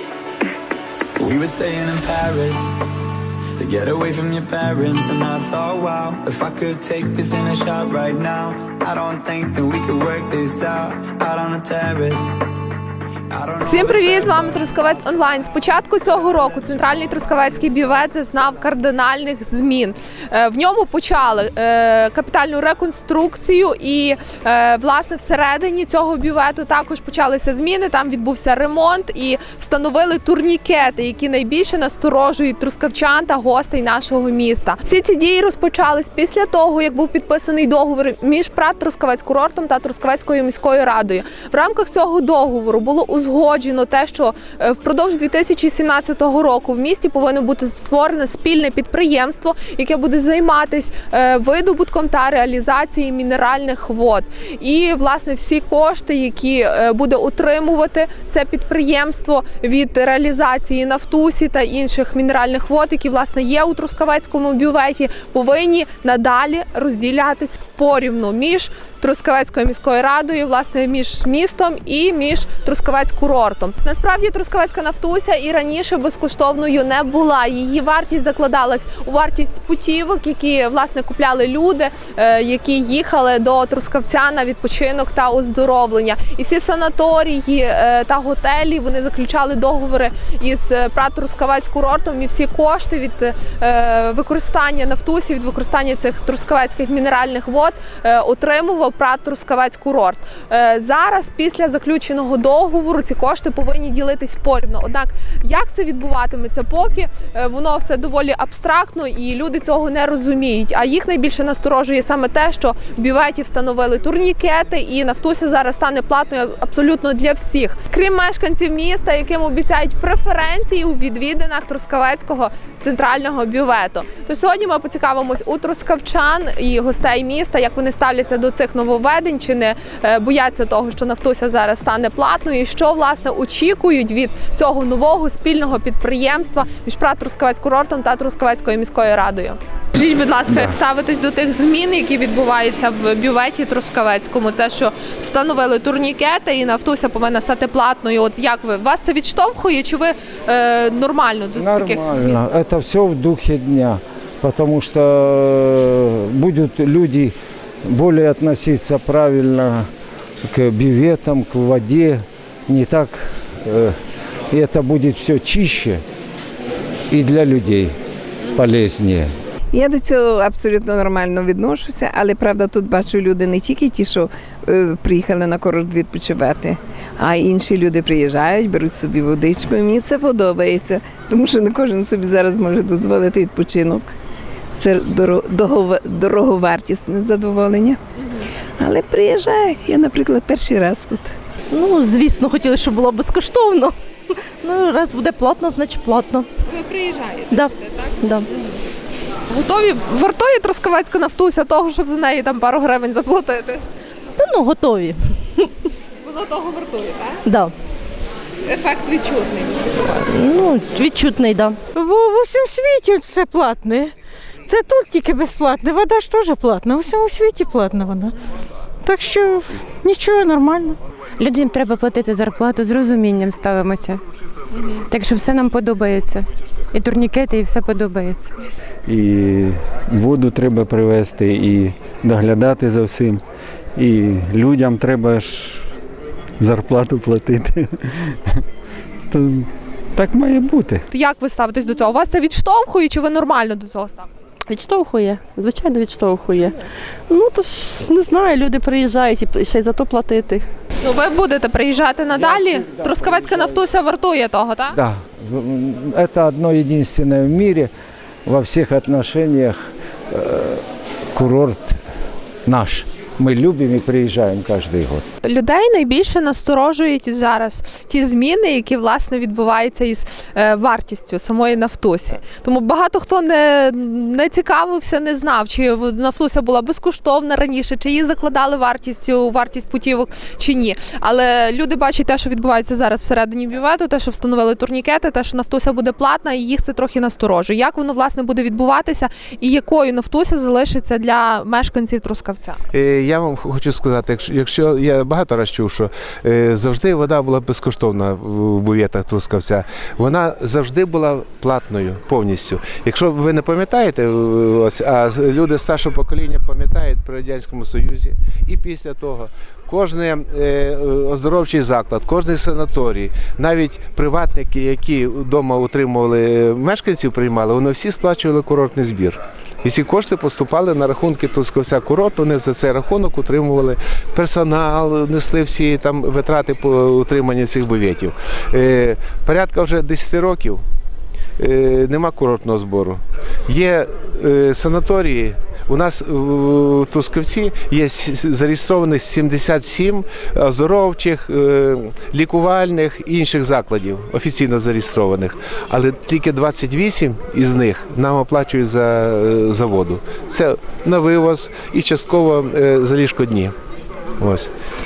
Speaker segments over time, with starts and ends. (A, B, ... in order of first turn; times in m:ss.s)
0:01.2-0:02.7 A
0:03.6-0:12.3 A
0:13.3-0:18.0 A
0:13.6-2:32.6 B
2:31.5-2:39.9 C
2:40.4-2:44.0 C
2:44.5-2:46.0 C
2:47.1-2:48.0 C
2:48.5-2:49.3 C
2:49.7-3:04.1 D
3:04.7-3:08.0 D
3:08.2-3:08.4 B
3:08.8-3:11.3 D
3:11.7-3:14.0 E
3:14.6-3:16.5 E
3:16.6-3:18.4 B
3:19.5-3:23.8 B
3:24.4-3:25.7 E
3:26.2-3:27.4 B
3:27.4-3:27.7 E
3:28.6-3:30.0 B
3:30.2-3:31.9 E
3:32.0-3:34.1 F
3:34.7-3:38.3 F
3:39.0-3:41.0 F
3:41.4-3:44.2 G
3:44.7-3:45.0 B
3:45.1-3:48.5 G
3:49.1-3:53.4 H
3:54.0-3:55.8 H
3:56.6-3:57.9 H
3:59.3-4:01.0 H
4:01.1-4:04.3 B
4:04.7-4:10.7 I
4:11.0-4:15.0 B
4:12.3-4:13.8 C
4:14.9-4:17.9 C
4:18.4-4:22.0 C
4:22.7-4:25.3 C
4:25.4-4:52.8 B
4:52.9-5:30.8 J
5:31.6-5:53.7 J
5:54.4-5:54.7 J